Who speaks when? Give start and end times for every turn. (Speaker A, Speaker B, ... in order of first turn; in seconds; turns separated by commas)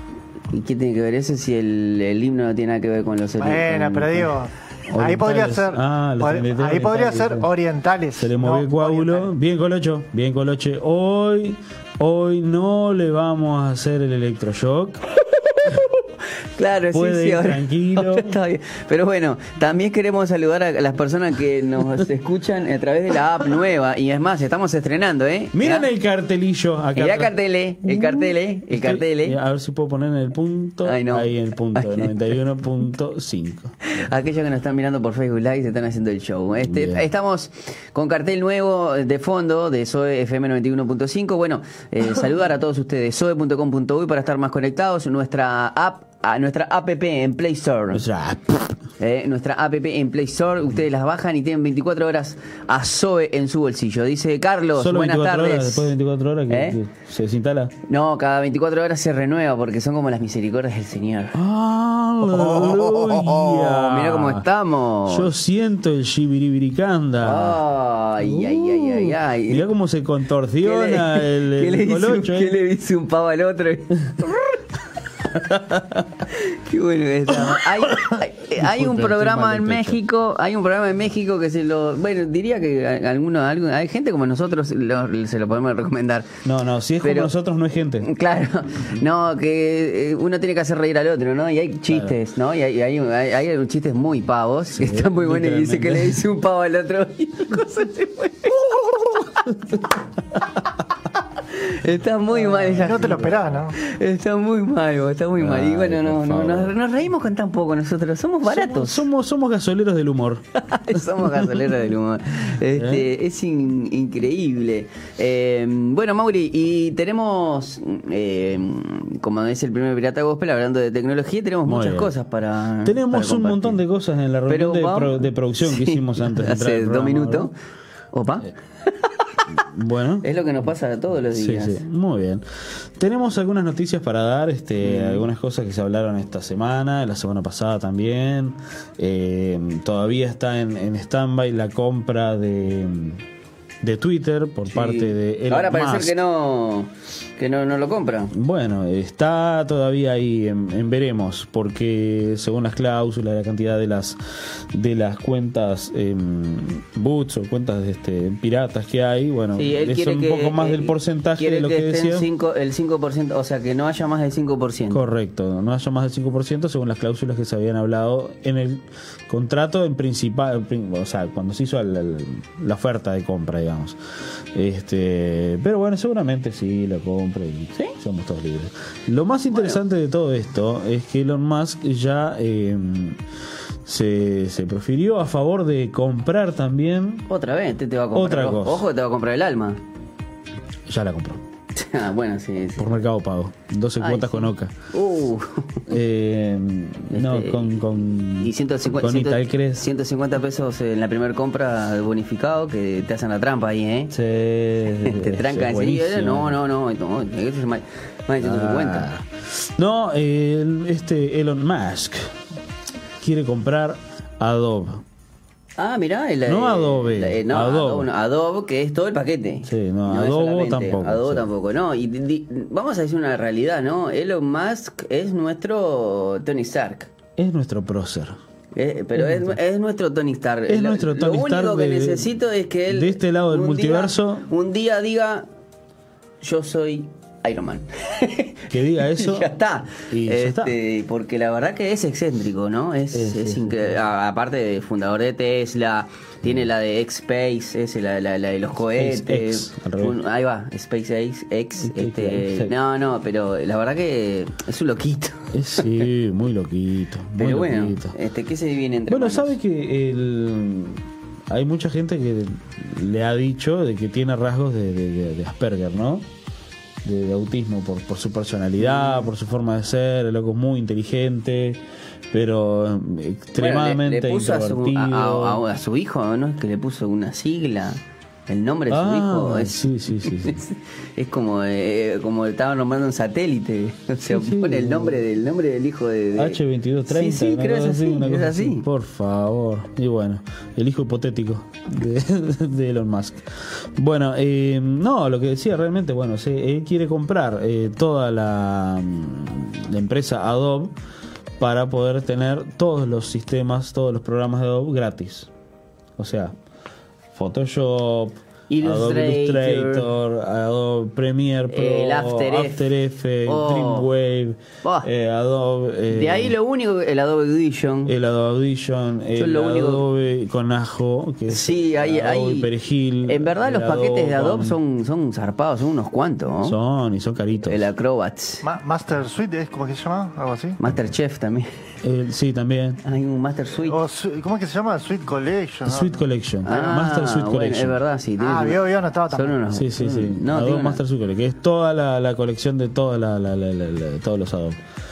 Speaker A: 0.5-4.3, Speaker B: 3.4-9.3, Speaker C: 4.9-7.5, Speaker C: 8.2-15.0, Speaker A: 15.6-16.0, Speaker A: 16.6-25.9, Speaker C: 16.9-18.3, Speaker C: 25.5-33.7, Speaker A: 26.9-29.4, Speaker A: 30.9-32.1, Speaker A: 33.9-48.0, Speaker C: 36.6-37.1, Speaker C: 47.9-48.7, Speaker A: 49.0-55.9, Speaker C: 54.8-57.7, Speaker A: 56.5-56.8, Speaker A: 57.9-61.4, Speaker C: 61.3-64.5, Speaker A: 62.3-65.3, Speaker C: 65.1-67.6, Speaker A: 67.2-69.7, Speaker C: 68.2-72.6, Speaker A: 70.6-74.5, Speaker A: 76.2-86.3, Speaker C: 77.3-80.0, Speaker C: 86.4-88.1, Speaker A: 87.0-87.3, Speaker A: 88.0-98.7, Speaker C: 91.9-92.2, Speaker C: 94.7-96.2, Speaker C: 98.6-100.0, Speaker A: 101.5-109.1, Speaker C: 102.3-103.7, Speaker B: 102.8-103.8, Speaker C: 105.4-106.8, Speaker C: 108.4-111.9, Speaker A: 110.6-123.8, Speaker C: 112.7-113.1, Speaker C: 121.7-122.1, Speaker C: 122.8-127.5, Speaker A: 124.5-127.5, Speaker A: 128.1-128.9, Speaker C: 129.6-130.3, Speaker A: 130.2-131.8, Speaker C: 131.3-132.4, Speaker C: 133.0-143.2, Speaker A: 134.8-135.3, Speaker C: 143.8-146.2, Speaker A: 144.7-148.3, Speaker C: 148.3-154.2, Speaker C: 154.7-162.3, Speaker A: 159.6-165.1, Speaker C: 164.9-174.0, Speaker C: 174.6-183.2, Speaker A: 179.5-179.8, Speaker C: 183.8-187.2, Speaker A: 187.3-189.8, Speaker C: 188.1-188.9, Speaker C: 190.9-191.4, Speaker A: 191.8-193.1, Speaker C: 192.8-194.7, Speaker A: 194.0-195.8, Speaker C: 195.9-199.9, Speaker A: 197.1-204.1, Speaker C: 204.1-206.6, Speaker A: 205.0-209.1, Speaker C: 208.4-212.3, Speaker C: 213.2-215.0, Speaker A: 215.8-227.1, Speaker C: 216.4-218.1, Speaker C: 219.7-221.5, Speaker C: 227.4-228.4, Speaker A: 228.8-235.5, Speaker C: 229.1-229.6, Speaker C: 230.7-232.4, Speaker C: 232.9-234.5, Speaker A: 236.4-256.0, Speaker C: 238.7-239.5, Speaker C: 240.1-240.8, Speaker C: 243.1-244.0, Speaker C: 248.9-250.2, Speaker C: 251.8-252.7, Speaker C: 255.5-258.1, Speaker A: 257.4-259.6, Speaker C: 259.1-266.3, Speaker C: 267.0-271.8, Speaker A: 268.8-269.3, Speaker C: 272.3-275.6, Speaker A: 273.6-288.9, Speaker C: 278.9-280.6, Speaker C: 284.2-285.2, Speaker C: 286.4-293.4, Speaker C: 293.9-300.9, Speaker C: 301.6-305.5, Speaker C: 306.2-306.6, Speaker C: 307.3-316.6, Speaker A: 308.7-310.1, Speaker A: 311.7-312.9, Speaker A: 313.4-314.1, Speaker A: 314.8-315.1, Speaker A: 316.1-318.1, Speaker C: 318.1-324.8, Speaker A: 319.4-320.1, Speaker A: 321.5-322.7, Speaker A: 323.3-326.8, Speaker C: 326.6-327.9, Speaker A: 327.7-328.6, Speaker B: 328.6-330.8, Speaker A: 330.8-331.7, Speaker C: 332.0-333.0, Speaker A: 333.0-334.0, Speaker B: 333.8-336.2, Speaker C: 335.9-338.0, Speaker A: 336.6-341.0, Speaker B: 338.4-339.6, Speaker C: 339.7-344.8